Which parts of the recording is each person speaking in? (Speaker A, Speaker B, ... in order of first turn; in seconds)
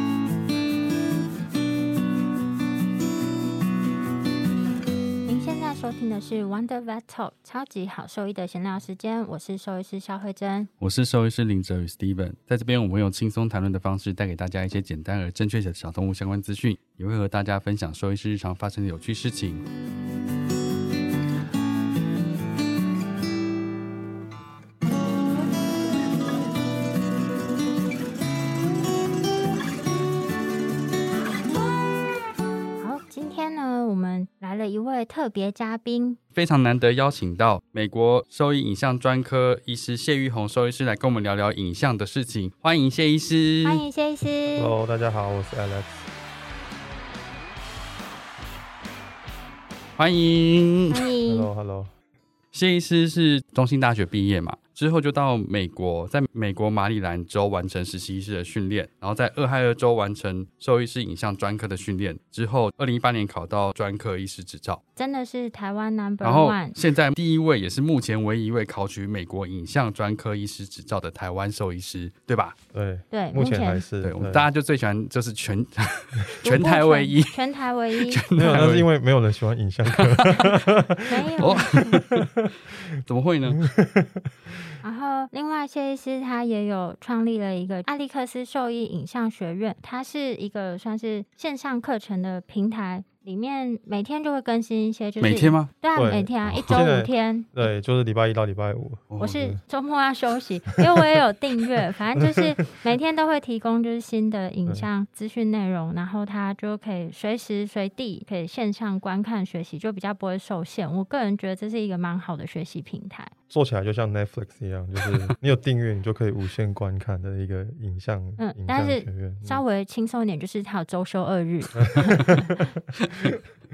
Speaker A: 5.2-10.7, 32.8-36.2, 43.6-44.8, 50.9-51.5, 65.0-66.8, 73.1-73.8, 76.4-78.2, 81.1-81.9, 84.8-97.6, 99.2-113.3, 118.4-122.5
Speaker B: 10.8-19.6, 36.4-43.8, 50.0-51.1, 52.5-64.8, 66.2-72.6, 74.0-78.9, 79.9-80.6, 81.4-82.3, 83.1-83.7, 95.2-95.7, 96.5-96.9, 99.1-99.4, 123.0-123.4
Speaker C: 44.6-45.9, 51.3-51.9, 72.7-74.5, 78.4-82.9, 83.5-84.6, 96.0-99.6, 100.8-101.1, 102.2-102.5, 113.5-119.6, 121.8-123.4